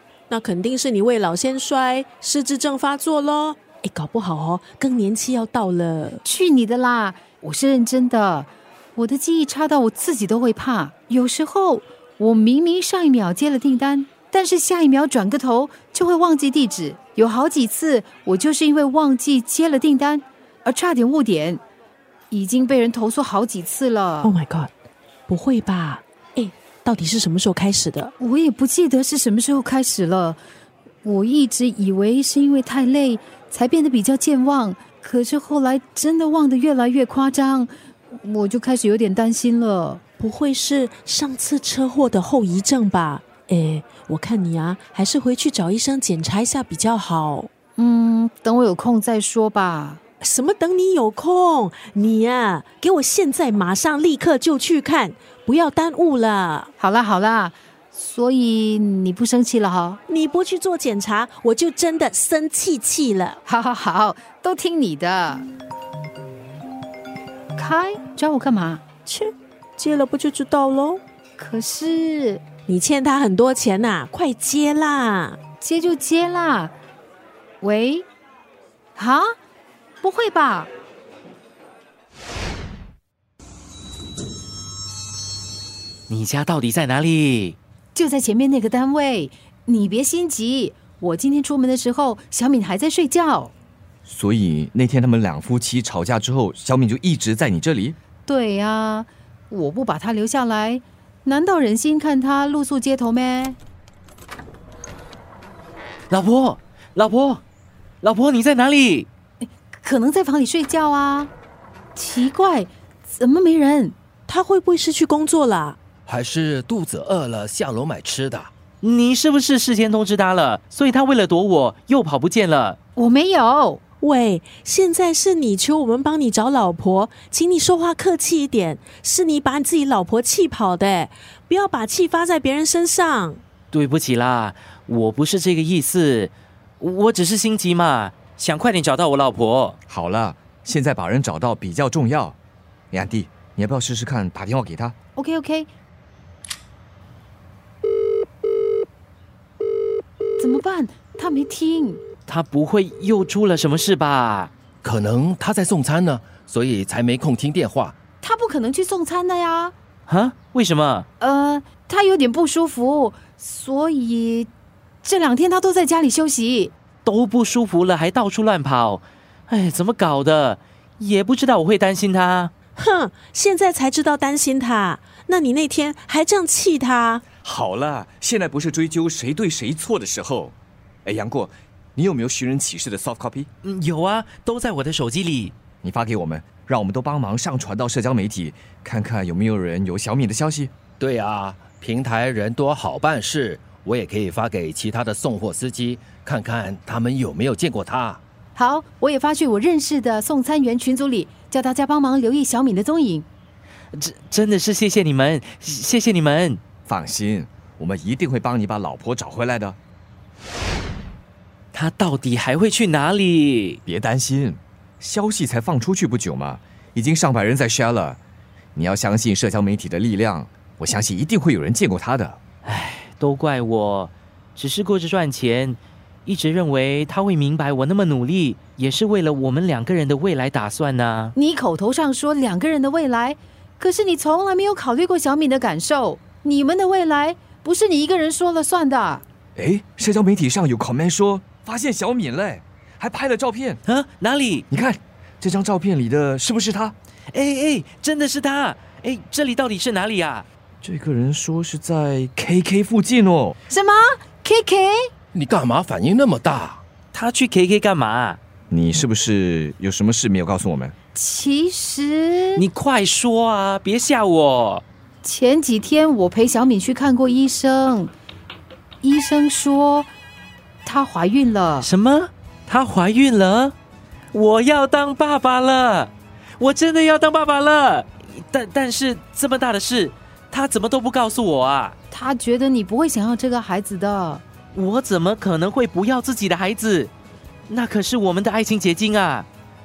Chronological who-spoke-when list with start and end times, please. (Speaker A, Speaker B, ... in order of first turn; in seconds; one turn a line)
Speaker A: 0.3-6.2
Speaker B: 6.2-21.6
Speaker B: 22.3-24.3
Speaker A: 24.2-24.7
Speaker A: 25.3-28.1
Speaker B: 28.2-30.4
Speaker B: 31.0-40.0
Speaker A: 40.2-47.5
Speaker B: 47.8-50.0
Speaker A: 50.2-56.7
Speaker B: 56.8-60.0
Speaker A: 60.1-63.4
Speaker B: 63.5-65.5
Speaker B: 67.5-68.8
Speaker A: 69.0-71.0
Speaker B: 71.4-72.4
Speaker A: 72.7-75.4
Speaker B: 75.6-76.7
Speaker B: 77.6-78.0
Speaker B: 79.0-79.3
Speaker B: 80.0-80.7
Speaker C: 86.1-87.6
Speaker B: 87.9-93.5
Speaker D: 94.0-98.0
Speaker B: 98.2-103.6
Speaker C: 106.1-107.4
Speaker C: 108.0-109.1
Speaker B: 109.4-111.3
Speaker B: 111.9-114.0
Speaker A: 114.3-115.8
Speaker E: 116.1-118.5
Speaker C: 118.8-122.8
Speaker B: 123.0-123.8
Speaker A: 124.0-133.4
Speaker C: 133.7-139.8
Speaker D: 139.9-142.4
Speaker D: 142.9-144.9
Speaker B: 145.2-145.7
Speaker B: 150.4-152.0
Speaker C: 152.3-154.5
Speaker E: 154.8-157.9
Speaker B: 158.2-159.7
Speaker C: 160.1-161.1
Speaker B: 161.2-164.5
Speaker B: 165.0-166.7
Speaker C: 167.0-172.5
Speaker A: 172.8-177.2
Speaker D: 177.4-183.5
Speaker C: 183.6-185.5
Speaker D: 185.8-190.7
Speaker E: 191.0-198.2
Speaker B: 198.5-203.3
Speaker C: 203.9-206.6
Speaker D: 206.8-209.8
Speaker C: 211.7-213.8
Speaker D: 213.8-218.2
Speaker D: 218.7-222.4
Speaker C: 222.7-231.3
Speaker B: 231.3-239.2
Speaker D: 239.6-243.8
Speaker C: 243.8-244.6
Speaker D: 244.7-246.9
Speaker C: 247.3-250.5
Speaker D: 250.8-253.6
Speaker B: 253.7-255.1
Speaker E: 255.3-256.8
Speaker C: 257.1-258.4
Speaker D: 258.7-260.9
Speaker B: 261.1-262.6
Speaker C: 262.6-264.8
Speaker B: 265.2-268.1
Speaker B: 269.0-270.1
Speaker B: 270.8-271.9
Speaker C: 271.8-273.7
Speaker C: 274.3-281.9
Speaker B: 282.1-284.4
Speaker C: 284.7-287.1
Speaker C: 287.7-289.5